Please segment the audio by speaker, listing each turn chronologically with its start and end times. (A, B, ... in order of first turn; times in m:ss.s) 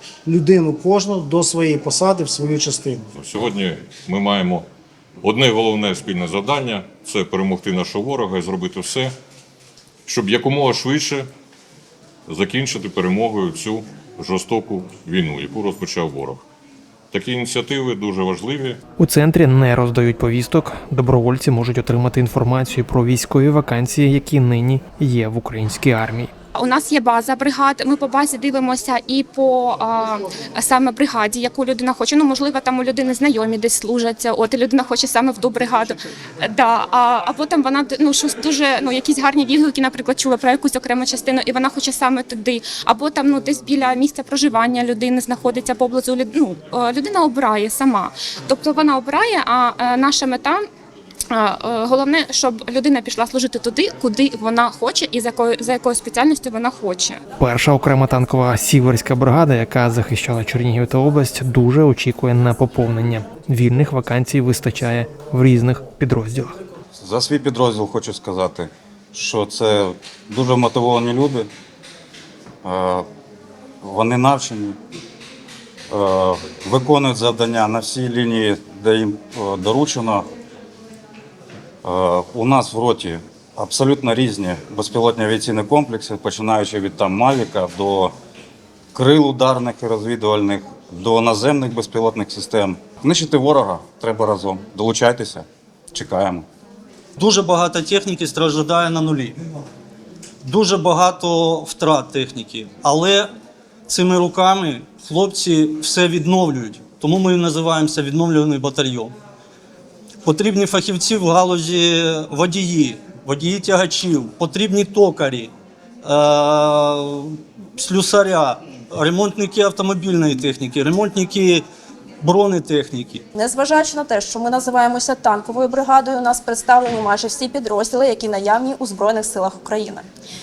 0:00.2-0:03.0 A
0:03.2-0:04.7 B
0:05.2-0:09.1 B
0:10.0-0:11.3 B
0:12.3-0:16.4 B
0:17.1-0:18.8 B
0:19.0-0:26.3 C
0:26.5-0:50.6 D
0:51.3-0:57.2 D
0:57.4-1:06.6 C
1:07.0-1:11.5 E
1:12.6-1:13.0 E
1:13.8-1:14.8 E
1:15.9-1:20.2 E
1:21.8-1:28.1 E
1:28.9-1:36.4 E
1:37.2-1:39.4 F
1:40.4-1:43.3 F
1:43.9-1:49.1 F
1:50.2-1:55.5 F
1:56.0-2:01.6 F
2:02.2-2:03.2 F
2:03.3-2:10.0 G